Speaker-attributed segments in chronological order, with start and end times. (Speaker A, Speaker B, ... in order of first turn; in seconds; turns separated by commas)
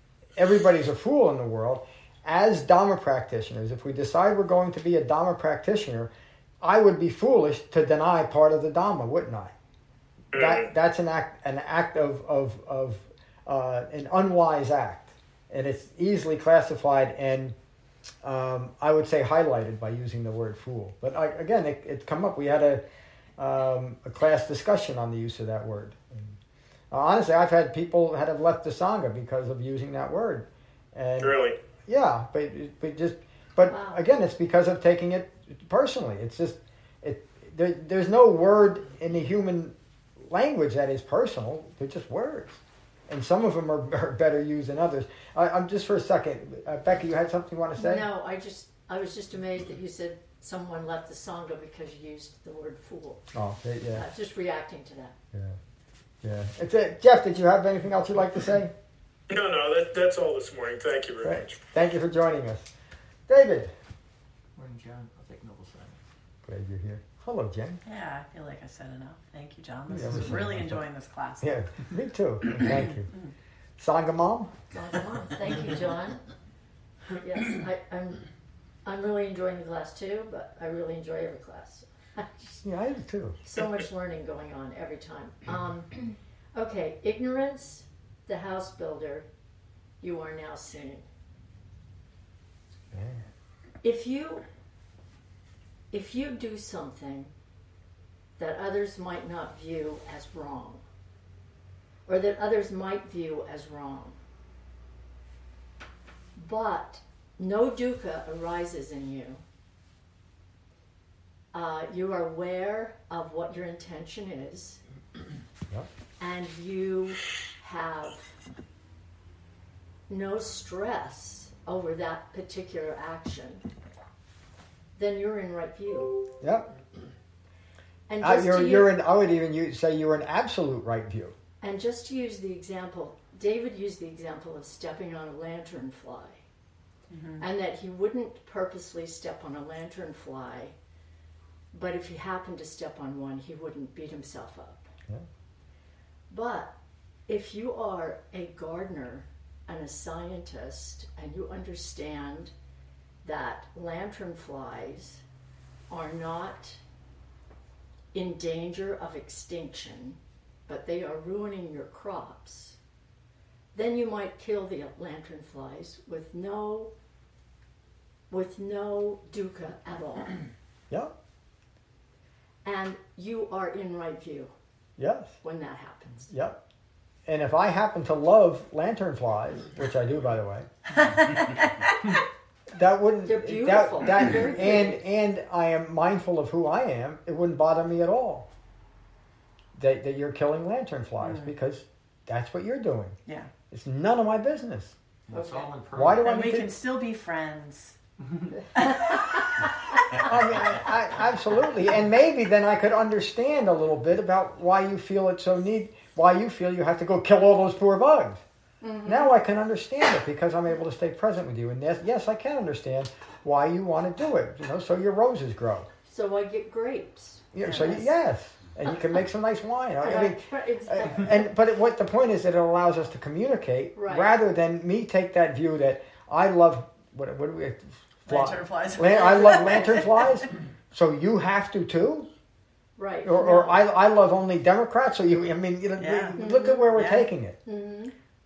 Speaker A: 0.4-9.5, Speaker A: 10.3-17.6, Speaker B: 10.3-10.7, Speaker A: 18.2-22.8, Speaker A: 23.4-26.4, Speaker A: 26.9-48.1, Speaker B: 31.2-31.6, Speaker C: 33.7-34.1, Speaker C: 47.8-53.3, Speaker A: 53.3-54.1, Speaker C: 53.9-55.1, Speaker A: 55.3-55.6, Speaker A: 56.2-58.7, Speaker B: 59.3-61.6, Speaker A: 61.2-62.7, Speaker A: 63.3-63.7, Speaker D: 64.5-66.0, Speaker A: 66.4-67.8, Speaker E: 67.8-71.6, Speaker A: 69.9-70.8, Speaker A: 71.4-73.1, Speaker A: 73.8-74.5, Speaker C: 74.7-76.2, Speaker C: 77.2-78.3, Speaker C: 78.8-82.6, Speaker A: 82.6-83.4, Speaker C: 83.4-89.3, Speaker C: 90.0-91.1, Speaker A: 92.9-93.3, Speaker C: 93.8-94.4, Speaker C: 95.9-97.3, Speaker C: 98.4-100.8, Speaker C: 102.1-104.2, Speaker C: 106.4-109.4, Speaker C: 111.5-114.8, Speaker C: 116.2-118.3, Speaker C: 120.1-123.6, Speaker C: 125.0-126.2, Speaker A: 126.4-126.7, Speaker C: 128.1-129.0, Speaker A: 128.2-131.4, Speaker C: 131.6-136.4, Speaker E: 137.1-137.4, Speaker C: 137.4-140.8, Speaker C: 141.7-144.9, Speaker C: 146.3-146.7, Speaker C: 147.3-152.5, Speaker C: 153.2-155.2, Speaker C: 155.9-156.8, Speaker C: 158.1-162.8, Speaker C: 163.7-166.9, Speaker C: 168.3-170.4, Speaker C: 172.6-174.5, Speaker A: 175.0-175.4, Speaker C: 175.4-176.3, Speaker A: 176.3-176.6, Speaker A: 177.3-180.7, Speaker E: 181.0-181.5, Speaker A: 182.7-188.5, Speaker C: 183.2-185.0, Speaker A: 189.8-193.2, Speaker E: 191.2-191.5, Speaker A: 193.7-195.0, Speaker D: 195.3-196.3, Speaker C: 195.3-195.7, Speaker A: 195.9-196.8, Speaker E: 196.2-198.0, Speaker D: 198.2-198.6, Speaker E: 198.8-199.2, Speaker C: 199.1-199.4, Speaker A: 200.2-208.4, Speaker C: 208.8-209.4, Speaker A: 209.1-215.9, Speaker C: 216.1-218.1, Speaker A: 217.5-232.3, Speaker C: 220.0-221.6, Speaker C: 223.9-224.3, Speaker E: 228.3-230.4, Speaker C: 229.5-230.1, Speaker C: 233.0-233.9, Speaker A: 233.2-237.6, Speaker E: 236.0-237.3, Speaker C: 236.4-237.1, Speaker C: 237.7-238.1